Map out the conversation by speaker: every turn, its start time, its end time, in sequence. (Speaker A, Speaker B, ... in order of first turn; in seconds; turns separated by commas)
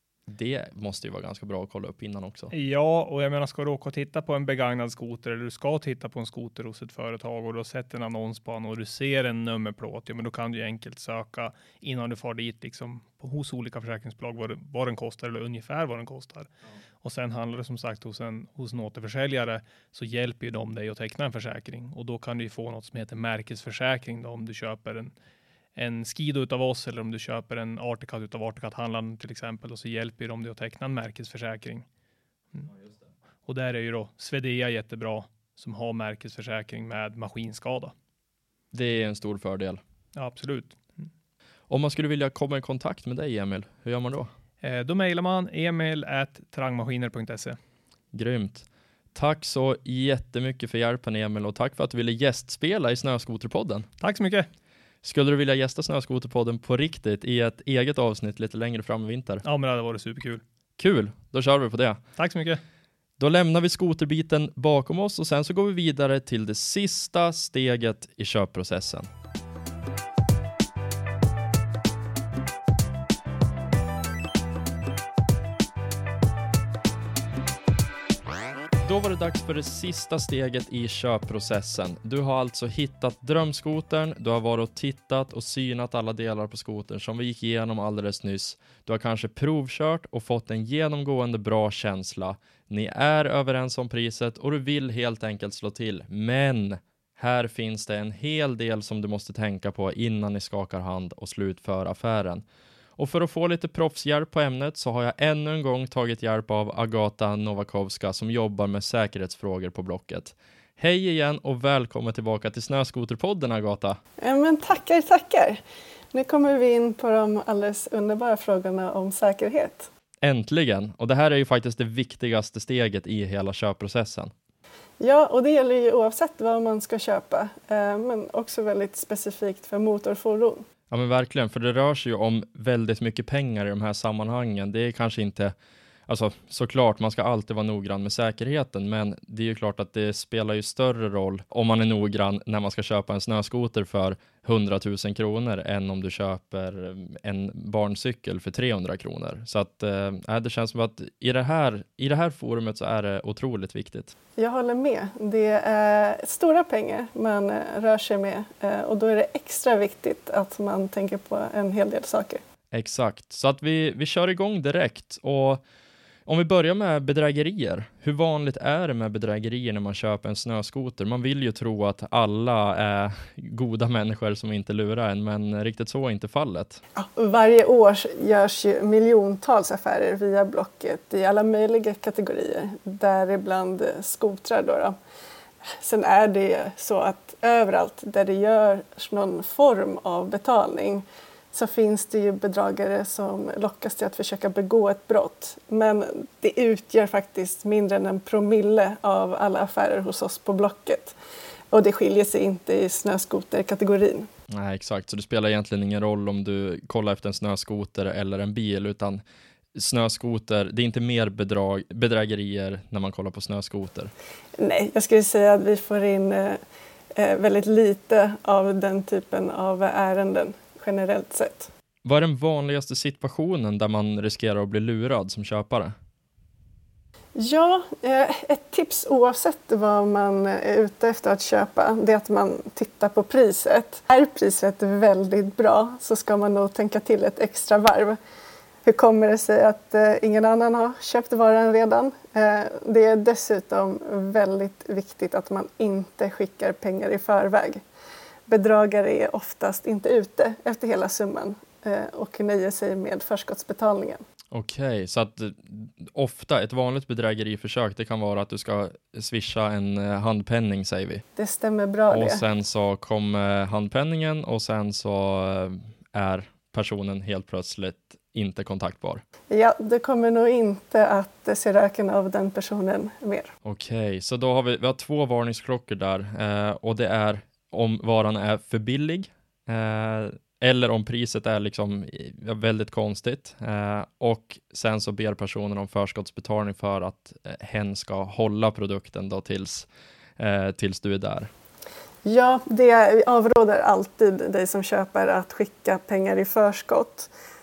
Speaker A: 0.3-2.5, Speaker B: 2.5-16.5, Speaker B: 17.0-25.1, Speaker B: 25.8-31.9, Speaker B: 33.5-37.9, Speaker A: 38.7-39.8, Speaker B: 40.1-41.1, Speaker A: 41.7-44.3, Speaker B: 44.6-47.6, Speaker A: 48.1-53.9, Speaker B: 54.0-54.5, Speaker A: 55.0-59.4, Speaker B: 59.4-60.4, Speaker A: 60.8-62.0, Speaker B: 62.2-62.6, Speaker A: 63.2-69.1, Speaker A: 78.8-102.5, Speaker A: 103.0-114.0, Speaker C: 114.2-115.6, Speaker C: 116.1-119.9, Speaker A: 120.2-124.3, Speaker C: 125.0-130.6, Speaker A: 130.9-135.5, Speaker A: 136.1-154.1, Speaker C: 154.4-162.4, Speaker A: 162.7-165.6, Speaker A: 166.3-176.8, Speaker C: 177.0-184.9, Speaker C: 185.8-201.2, Speaker C: 201.7-204.3, Speaker A: 204.5-209.2, Speaker A: 209.8-214.1, Speaker C: 214.6-216.6, Speaker C: 217.2-221.7, Speaker A: 222.1-225.9, Speaker C: 227.4-238.2, Speaker C: 238.8-247.8, Speaker C: 248.5-254.2, Speaker A: 254.5-261.2, Speaker C: 261.4-262.4, Speaker A: 262.1-269.2, Speaker C: 269.5-273.5, Speaker A: 273.6-291.5, Speaker C: 292.2-297.3